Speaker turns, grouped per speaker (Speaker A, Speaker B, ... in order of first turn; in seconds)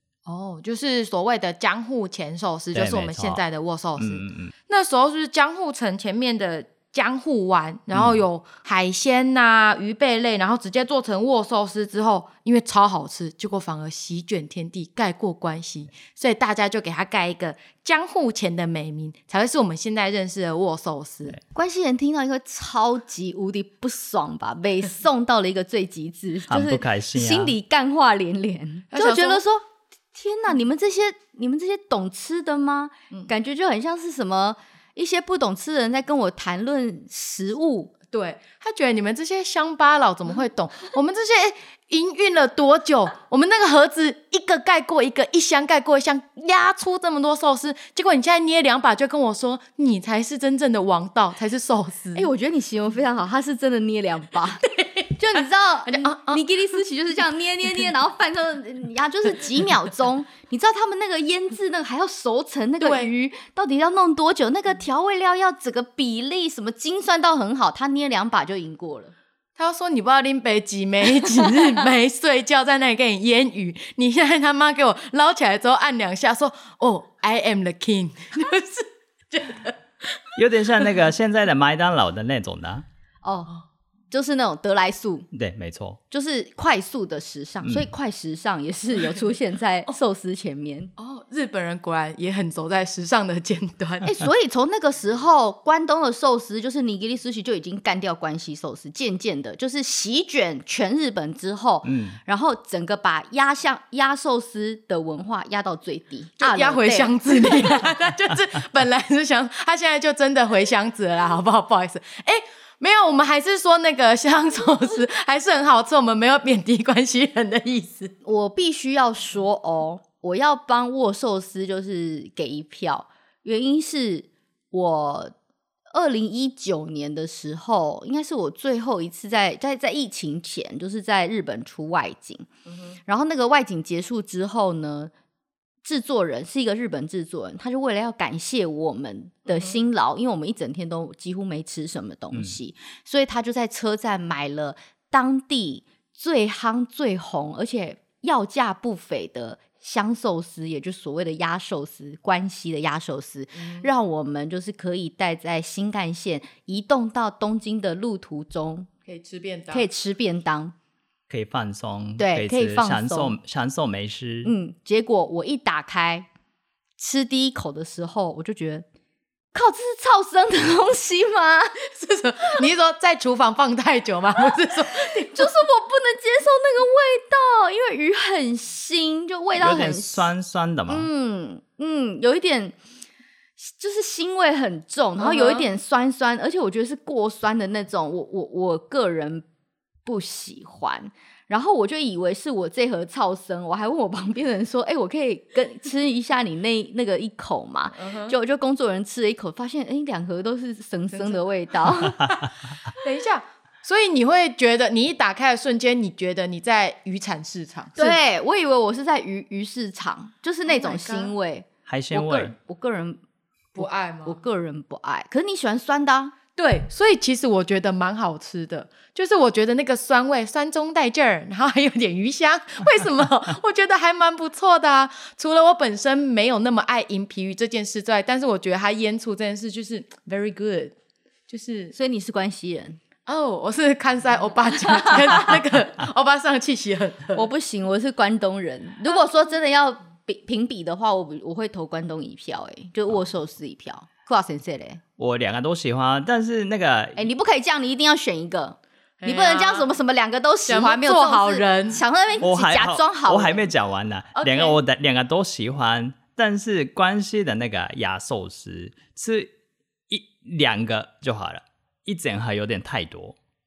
Speaker A: 0.2-21.4, 28.9-29.4, 38.1-52.3, 54.6-56.4, 62.8-63.1, 69.6-80.2, 91.0-94.1, 106.4-118.1, 132.7-132.9, 139.5-139.8, 153.6-153.9, 159.1-159.8, 171.9-175.5, 185.2-185.7, 197.9-198.3, 201.1-201.4, 202.9-208.2, 210.7-211.3, 213.8-214.4, 216.6-230.9, 231.5-231.9, 233.2-237.5, 249.2-249.9, 250.7-252.0, 254.3-254.8
Speaker B: 2.7-3.4, 4.0-4.5, 7.9-8.2, 26.5-27.5, 80.3-82.8, 85.3-86.0, 87.6-87.9, 101.8-102.2, 161.3-164.5, 179.6-181.1, 211.9-212.5, 245.2-247.2, 252.4-259.5, 260.1-263.4
Speaker C: 21.5-37.9, 52.1-54.6, 55.2-69.1, 83.2-83.5, 84.1-85.3, 86.1-90.9, 94.0-107.8, 118.2-125.3, 125.9-132.5, 133.1-135.1, 135.8-158.9, 159.7-160.7, 162.2-163.3, 164.4-166.3, 167.0-168.8, 169.5-171.8, 175.2-180.3, 180.9-182.8, 183.6-189.4, 190.0-202.3, 207.9-213.2, 213.8-216.3, 231.9-233.0, 237.3-245.0, 247.2-253.7